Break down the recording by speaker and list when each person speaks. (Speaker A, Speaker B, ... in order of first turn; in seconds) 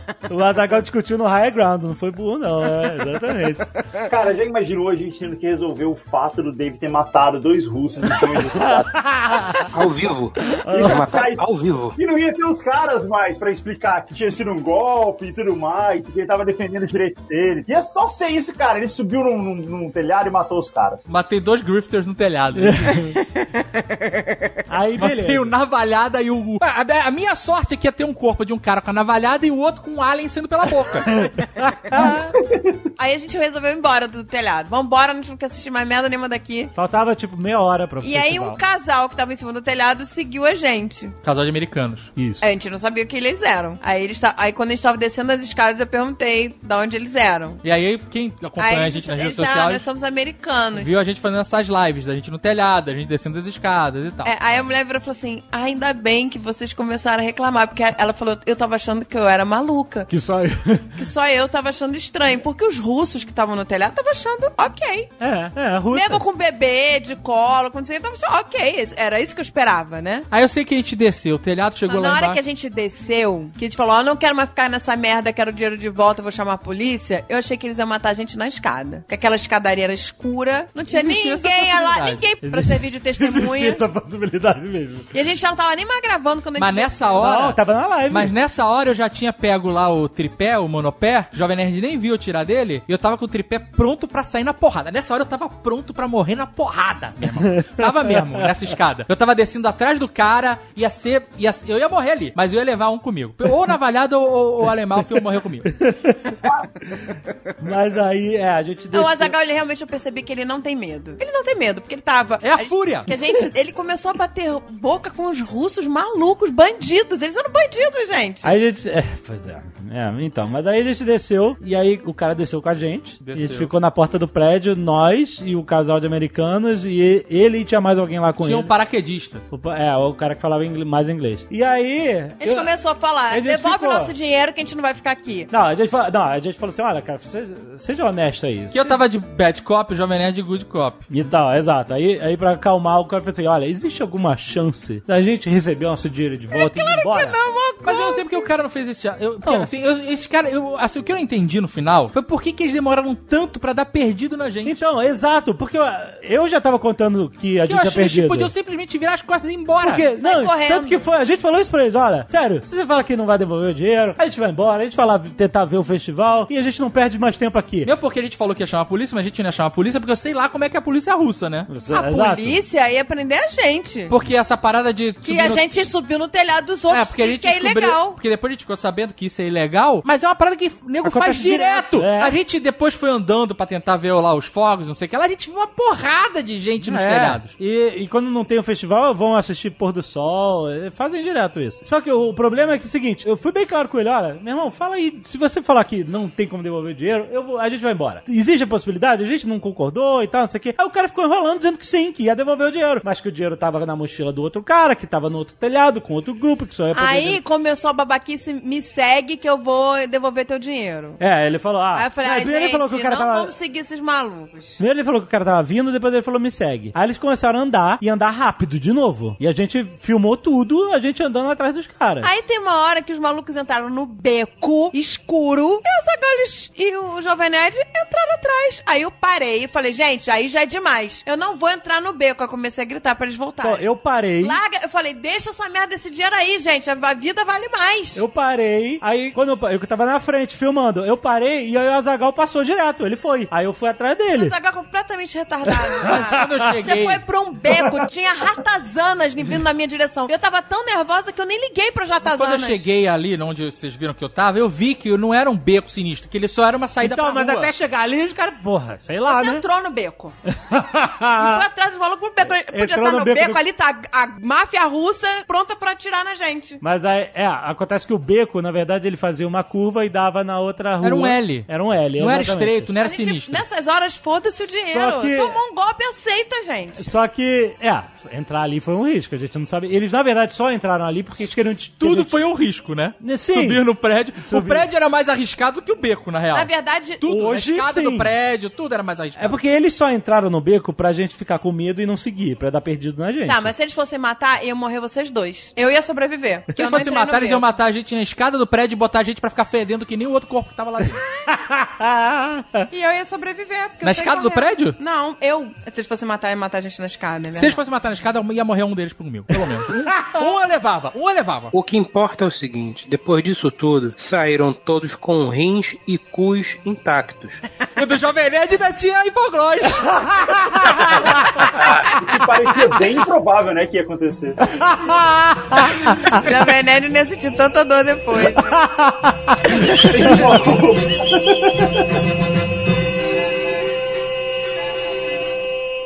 Speaker A: 0.3-3.7, 8.6-9.7, 10.6-11.2, 22.6-23.2, 24.7-25.5, 31.1-32.3, 36.8-38.6, 42.2-42.4, 60.1-61.0, 65.2-66.2, 82.5-85.1, 87.2-88.3, 97.4-98.7, 105.7-106.4, 107.6-109.3, 118.4-128.7, 129.5-132.7, 133.3-134.1, 135.5-138.9, 141.1-147.4, 149.4-149.7, 154.7-158.5, 159.8-167.9, 171.7-172.6, 181.0-182.4, 186.8-207.4, 211.2-213.5, 214.8-222.3, 233.6-234.6, 238.2-244.6, 245.7-246.6, 257.0-259.6, 260.5-261.6, 262.7-263.6, 266.8-272.9, 274.8-275.6, 277.0-282.4, 283.2-283.9, 284.4-284.9, 287.3-288.3, 289.4-293.7, 301.4-302.9, 320.3-321.3, 324.8-326.0, 328.7-330.5
Speaker B: 4.1-8.9, 10.7-11.4, 11.9-21.0, 32.2-32.7, 321.8-324.6, 329.8-332.1
Speaker C: 9.7-12.0, 311.7-317.6
Speaker D: 21.1-23.1, 25.0-31.2, 41.2-42.1, 47.6-49.9, 50.8-54.7, 70.3-72.4, 80.9-82.2, 86.6-105.7, 112.4-113.1, 123.2-123.7, 128.4-129.4, 138.7-141.0, 147.8-154.8, 157.7-160.0, 167.8-171.7, 174.1-175.6, 176.9-187.5, 246.1-247.2, 252.2-257.7, 271.0-273.6, 282.0-286.7, 287.2-289.6, 296.8-301.2, 304.0-305.0, 307.6-311.7, 318.0-320.4
Speaker E: 33.0-36.7, 38.0-41.1, 42.4-47.6, 48.6-50.9, 54.2-60.1, 61.0-65.1, 65.9-70.3, 71.9-83.8, 85.1-87.2, 108.9-118.5, 132.4-135.5, 146.5-148.3, 160.2-161.1, 171.9-174.1, 175.2-178.2, 206.9-211.2, 211.9-214.8, 222.2-233.9, 234.4-238.2, 244.3-252.8, 259.3-260.4, 261.4-266.8, 273.0-277.1, 286.5-287.4, 293.5-297.7, 302.9-307.8, 326.3-328.9